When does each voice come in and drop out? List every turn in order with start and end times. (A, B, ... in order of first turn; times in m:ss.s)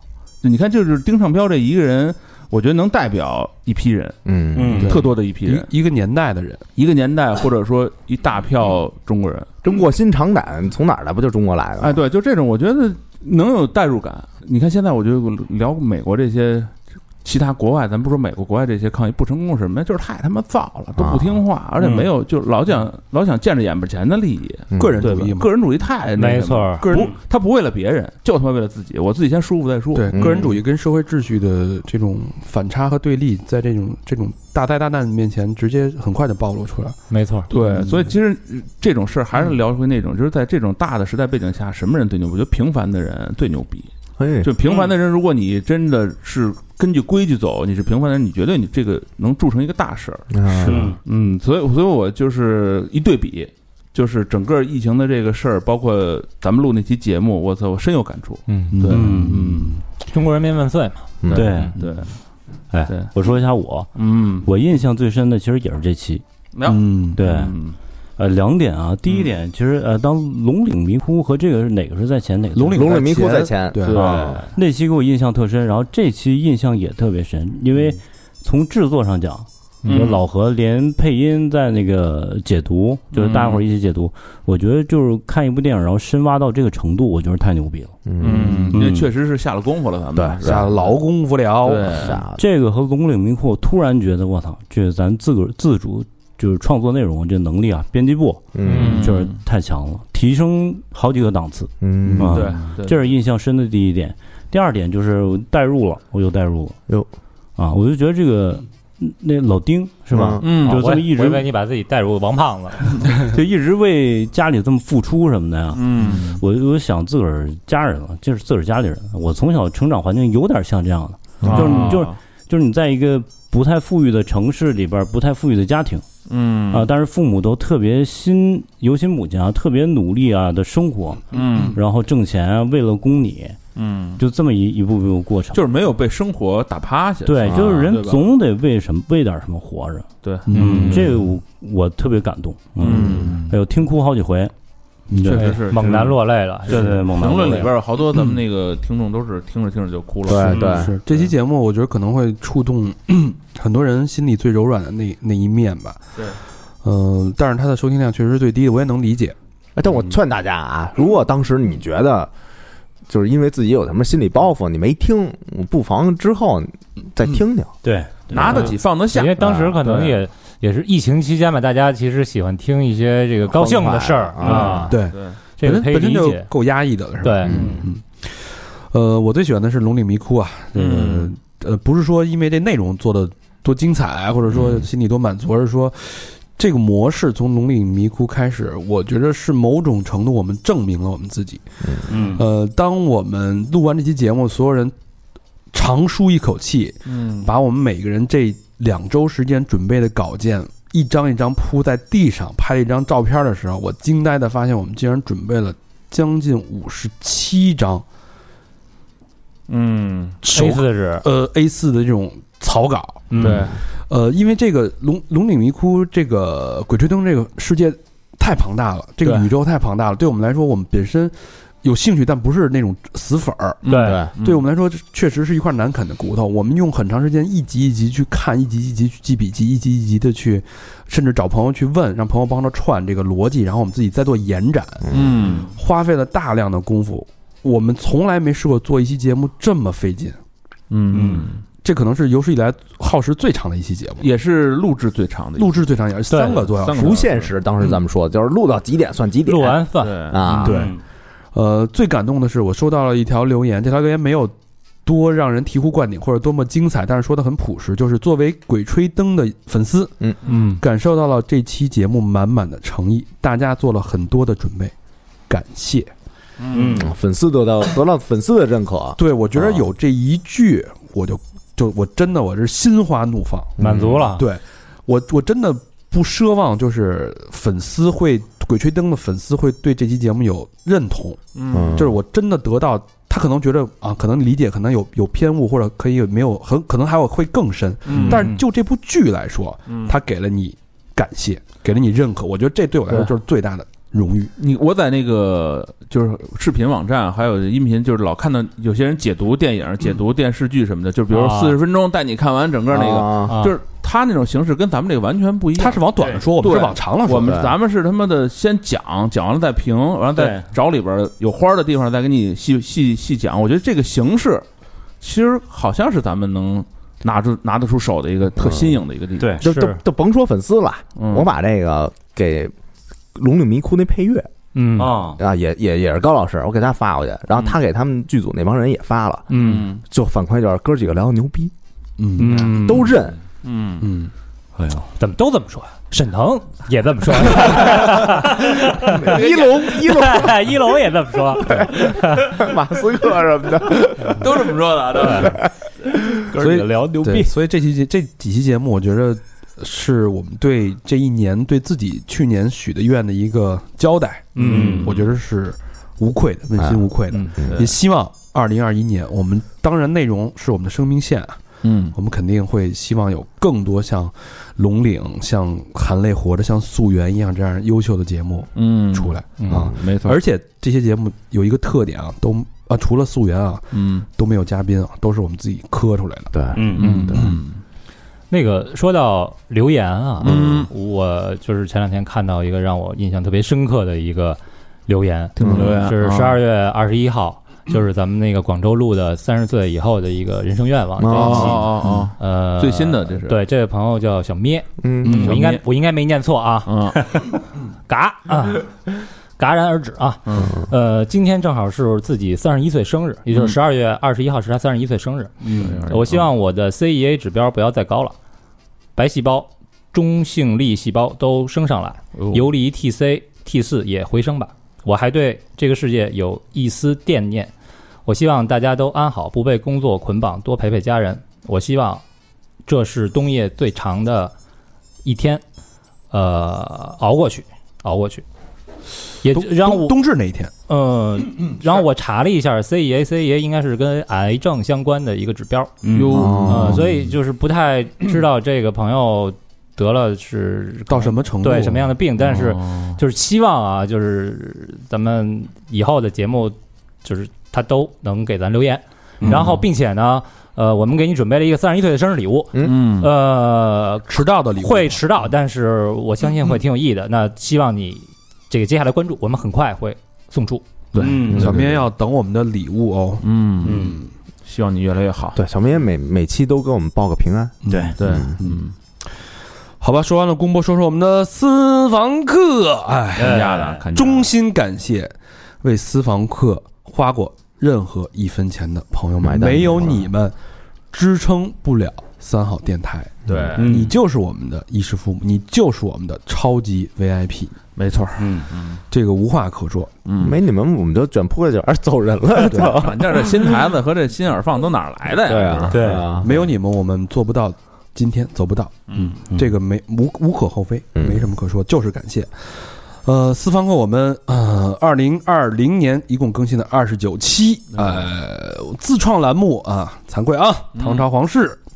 0:00.4-0:04.2 A
0:04.3-0:04.9 B
0:04.5-0:04.9 C
0:04.8-0:05.7 A
0:04.8-0:06.6 D
0:06.8-0:09.5 A
0:09.6-0:12.0 B
0:11.8-0:30.4 A
0:21.0-0:21.4 B
0:24.7-0:25.1 B
0:24.8-0:25.5 D
0:26.2-0:27.1 E
0:29.9-0:37.0 D
0:30.1-0:30.5 B
0:37.1-0:37.5 E
0:37.5-0:43.9 A
0:37.5-0:38.1 D
0:44.2-0:44.5 B
0:44.4-0:50.3 A
0:50.3-0:50.9 B
0:50.6-0:51.0 C
0:51.0-0:59.1 A
0:58.5-0:58.8 E
0:58.7-0:59.8 D
0:58.9-0:59.7 C
1:00.0-1:01.1 E
1:01.2-1:01.5 B
1:01.3-1:02.1 A
1:01.3-1:01.8 C
1:02.7-1:03.9 C
1:04.0-1:04.5 A
1:04.4-1:06.2 C
1:06.5-1:07.8 A
1:06.6-1:07.2 D
1:07.1-1:07.6 C
1:08.2-1:12.9 C
1:12.5-1:14.4 D
1:12.7-1:14.2 B
1:13.8-1:14.4 A
1:13.9-1:28.0 C
1:19.9-1:20.2 A
1:23.1-1:23.6 A
1:28.1-1:28.6 B
1:28.2-1:30.9 A
1:28.2-1:28.8 D
1:28.7-1:29.1 C
1:30.2-1:30.7 B
1:30.4-1:32.1 D
1:31.6-1:32.2 A
1:31.9-1:32.4 B
1:32.4-1:46.8 C
1:38.5-1:39.0 B
1:38.7-1:39.3 A
1:41.8-1:42.5 B
1:42.1-1:42.4 D
1:42.3-1:43.0 A
1:47.6-1:51.4 C
1:50.1-1:50.4 B
1:50.4-1:50.8 A
1:50.6-1:53.0 E
1:53.2-2:06.0 C
1:55.7-1:56.4 A
2:01.4-2:02.2 A
2:06.3-2:06.9 A
2:06.7-2:13.6 C
2:11.3-2:11.8 A
2:13.8-2:14.2 A
2:14.2-2:15.6 C
2:15.5-2:18.2 A
2:17.2-2:24.5 C
2:20.2-2:21.0 A
2:20.5-2:21.2 D
2:22.8-2:23.5 A
2:25.1-2:25.6 D
2:25.1-2:26.0 C
2:25.3-2:31.3 A
2:25.3-2:27.0 E
2:26.7-2:27.7 C
2:30.2-2:30.9 B
2:30.3-2:36.0 D
2:30.5-2:30.8 C
2:36.8-2:39.4 D
2:39.8-2:42.3 B
2:43.1-2:47.7 B
2:47.8-2:48.7 C
2:48.3-2:50.2 A
2:49.1-2:55.0 E
2:49.4-2:49.8 B
2:53.5-2:55.0 B
2:54.4-2:55.4 A
2:54.5-3:11.6 D
2:55.6-2:56.5 E
2:57.2-2:57.6 E
2:57.4-2:57.8 B
3:00.8-3:01.3 A
3:04.5-3:04.8 B
3:11.8-3:12.1 B
3:12.1-3:12.4 C
3:12.3-3:14.9 D
3:15.7-3:28.0 D
3:17.1-3:17.5 A
3:29.7-3:30.4 A
3:30.4-3:43.8 D
3:30.5-3:31.2 E
3:33.3-3:33.6 E
3:33.4-3:33.8 A
3:39.2-3:39.5 A
3:43.8-3:44.6 A
3:43.9-3:44.3 E
3:44.0-3:44.3 B
3:44.4-3:55.1 D
3:55.1-3:55.4 B
3:55.1-3:55.7 A
3:55.8-4:00.4 D
4:00.9-4:01.6 A
4:01.1-4:01.5 C
4:01.8-4:04.3 D
4:04.2-4:06.0 A
4:05.6-4:07.2 D
4:06.3-4:06.6 E
4:06.7-4:07.5 A
4:06.9-4:10.9 B
4:09.5-4:10.3 E
4:10.0-4:10.7 A
4:10.6-4:11.0 C
4:11.5-4:14.5 D
4:15.1-4:20.2 D
4:20.8-4:24.9 D
4:25.5-4:26.1 D
4:26.6-4:27.0 A
4:26.7-4:27.1 C
4:26.9-4:29.8 B
4:29.2-4:33.8 D
4:33.8-4:34.4 B
4:33.8-4:34.5 E
4:34.4-4:41.4 D
4:41.6-4:42.0 A
4:41.7-4:42.2 B
4:42.0-4:54.5 D
4:48.1-4:48.6 A
4:48.2-4:48.4 B
4:49.9-4:50.2 A
4:54.6-5:14.6 A
5:01.3-5:01.8 E
5:02.9-5:03.6 B
5:03.5-5:03.8 E
5:05.8-5:07.6 D
5:07.4-5:07.7 B
5:10.4-5:10.7 C
5:15.2-5:19.6 A
5:18.6-5:19.0 B
5:19.6-5:22.7 B
5:19.6-5:20.0 E
5:21.2-5:21.5 A
5:23.4-5:24.5 B
5:24.8-5:25.2 E
5:25.0-5:25.4 C
5:25.4-5:29.5 B
5:29.5-5:29.9 E
5:29.6-5:30.0 A
5:30.1-5:31.7 B
5:32.2-5:32.8 D
5:32.4-5:33.1 E
5:32.7-5:33.4 B
5:33.6-5:34.1 A
5:34.0-5:34.3 D
5:34.8-5:35.1 C
5:35.2-5:42.6 E
5:39.2-5:40.6 B
5:39.4-5:39.6 A
5:41.8-5:44.7 B
5:44.4-5:45.6 A
5:45.2-5:45.7 B
5:46.5-6:01.6 D
5:46.6-5:47.5 C
5:54.6-5:55.1 C
5:54.6-5:55.0 E
5:54.6-5:55.3 A
5:56.8-5:57.1 B
5:57.7-5:57.9 A
6:01.8-6:02.2 A
6:02.1-6:16.5 D
6:08.8-6:10.4 A
6:13.9-6:14.3 A
6:16.5-6:17.5 B
6:16.8-6:17.1 C
6:17.0-6:17.8 A
6:17.0-6:17.4 E
6:18.5-6:37.5 E
6:20.4-6:20.8 B
6:20.4-6:20.9 A
6:25.6-6:26.4 A
6:25.6-6:26.1 B
6:31.2-6:32.2 B
6:31.3-6:33.6 A
6:35.0-6:35.6 B
6:35.3-6:35.8 A
6:36.9-6:37.2 A
6:38.1-6:38.9 E
6:39.6-6:45.5 E
6:45.6-6:46.0 C
6:45.8-6:46.5 A
6:46.1-6:48.4 E
6:49.2-6:57.7 E
6:52.4-6:52.7 A
6:58.3-7:02.2 E
7:02.9-7:04.5 E
7:05.2-7:05.6 E
7:06.3-7:08.4 E
7:09.4-7:10.2 E
7:09.5-7:10.7 D
7:10.9-7:16.0 E
7:16.0-7:16.5 C
7:16.1-7:17.0 A
7:16.3-7:17.0 B
7:16.7-7:40.8 E
7:21.1-7:22.2 D
7:22.4-7:23.2 A
7:29.4-7:29.8 D
7:32.8-7:33.3 A
7:34.3-7:35.3 D
7:41.2-7:41.8 A
7:41.2-7:44.3 D
7:41.2-7:41.7 C
7:41.5-7:41.9 B
7:43.4-7:44.1 A
7:43.8-7:44.2 C
7:44.7-7:45.6 A
7:45.6-7:48.6 B
7:47.8-7:48.8 D
7:47.9-7:48.1 C
7:48.2-7:48.9 A
7:50.0-8:00.5 D
7:53.4-7:54.0 C
7:53.4-7:54.5 A
7:59.4-8:00.3 B
8:01.1-8:07.8 D
8:03.5-8:04.1 A
8:03.8-8:04.1 C
8:08.0-8:09.0 A
8:08.4-8:08.7 C
8:09.1-8:10.1 D
8:10.3-8:10.6 A
8:10.4-8:13.8 B
8:12.7-8:13.0 D
8:12.7-8:16.0 A
8:15.4-8:16.6 B
8:15.9-8:16.2 C
8:16.4-8:31.8 D
8:19.1-8:19.4 A
8:21.2-8:21.5 B
8:27.9-8:28.3 A
8:31.0-8:31.3 A